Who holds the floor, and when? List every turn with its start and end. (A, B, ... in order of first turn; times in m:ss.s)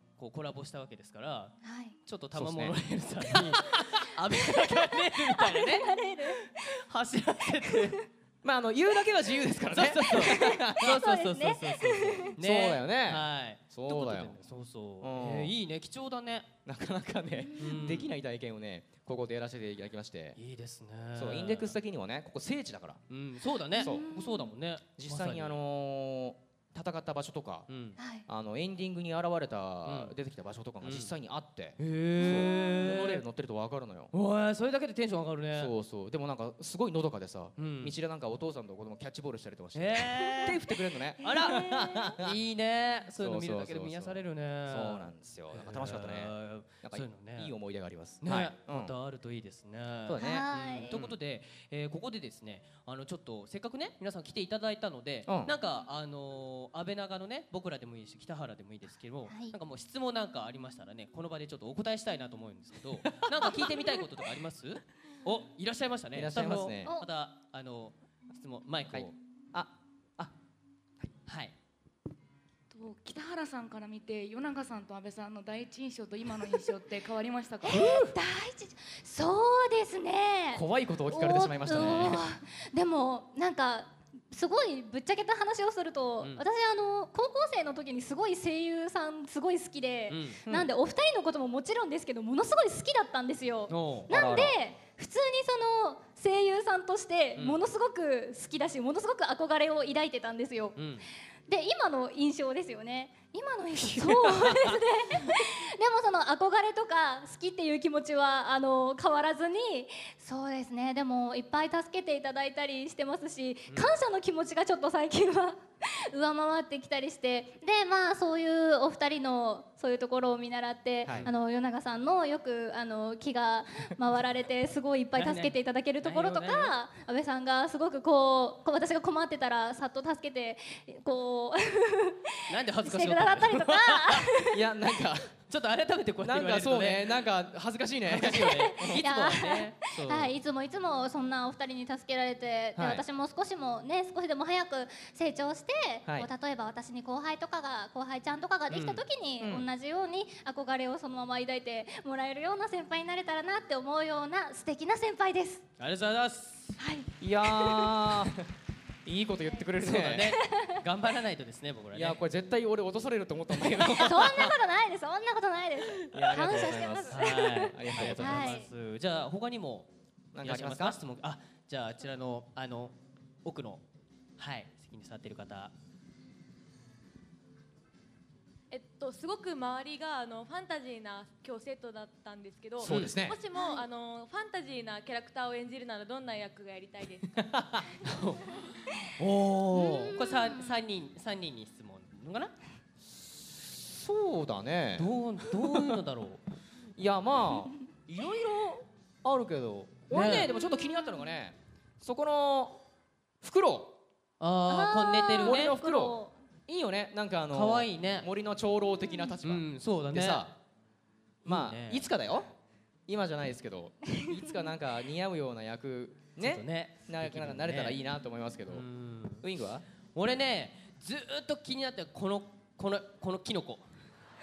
0:00.2-0:08.0 A
0:01.6-0:02.0 B
0:02.3-0:03.9 C
0:04.5-0:06.5 B
0:08.4-0:11.0 C
0:09.7-0:16.5 A
0:10.3-0:12.3 B
0:12.4-0:14.4 C
0:15.0-0:15.5 C
0:16.6-0:20.4 C
0:17.4-0:17.9 B
0:17.6-0:18.1 A
0:20.4-0:21.8 A
0:21.1-0:23.0 C
0:23.1-0:25.6 A
0:23.8-0:24.1 C
0:23.8-0:24.5 B
0:24.9-0:27.7 C
0:27.7-0:28.0 A
0:28.0-0:28.2 B
0:28.3-0:34.1 C
0:29.8-0:30.1 A
0:30.8-0:31.1 A
0:31.8-0:33.2 A
0:34.1-0:35.7 A
0:35.5-0:42.4 C
0:37.6-0:37.9 A
0:39.7-0:40.6 A
0:41.2-0:47.5 A
0:41.7-0:42.1 B
0:43.2-0:48.9 C
0:48.2-1:09.1 A
0:50.1-0:51.2 C
0:50.2-0:50.9 B
0:55.2-0:55.5 C
0:59.3-0:59.5 B
1:06.1-1:06.9 C
1:08.9-1:10.3 C
1:11.2-1:11.5 A
1:12.7-1:17.8 D
1:17.6-1:40.8 B
1:20.5-1:22.2 C
1:30.1-1:30.4 A
1:33.7-1:34.1 A
1:34.1-1:34.6 C
1:40.8-1:41.0 A
1:41.5-2:14.6 B
1:43.9-1:44.8 C
2:01.1-2:01.3 A
2:05.2-2:06.7 A
2:12.5-2:14.3 A
2:14.5-2:15.3 C
2:15.5-2:17.1 A
2:16.2-2:19.0 C
2:18.1-2:20.3 A
2:18.4-2:35.6 B
2:22.8-2:23.0 C
2:28.7-2:29.0 A
2:29.4-2:29.7 C
2:35.8-2:36.8 A
2:36.8-2:38.1 B
2:37.2-2:38.5 C
2:39.0-2:40.4 C
2:39.8-2:42.2 A
2:40.4-2:40.7 B
2:41.9-2:44.5 C
2:44.0-2:48.7 B
2:46.1-2:48.6 C
2:46.5-2:49.9 A
2:50.3-2:51.0 C
2:50.4-2:53.8 A
2:54.4-2:55.7 A
2:58.7-3:07.4 E
3:02.8-3:03.4 C
3:02.8-3:03.2 A
3:03.5-3:03.8 B
3:08.0-3:12.5 A
3:09.8-3:10.7 B
3:13.0-3:15.1 C
3:15.0-3:16.4 A
3:17.0-3:22.8 C
3:20.1-3:20.5 A
3:20.1-3:21.3 B
3:23.4-3:24.0 C
3:24.4-3:25.7 A
3:24.7-3:26.3 B
3:25.4-3:30.5 C
3:27.5-3:28.3 A
3:29.0-3:29.3 B
3:29.4-3:30.5 A
3:31.4-3:32.0 A
3:31.4-3:32.5 C
3:33.1-3:38.8 C
3:36.4-3:38.0 A
3:38.7-3:39.4 A
3:39.4-3:39.8 C
3:40.1-3:43.8 A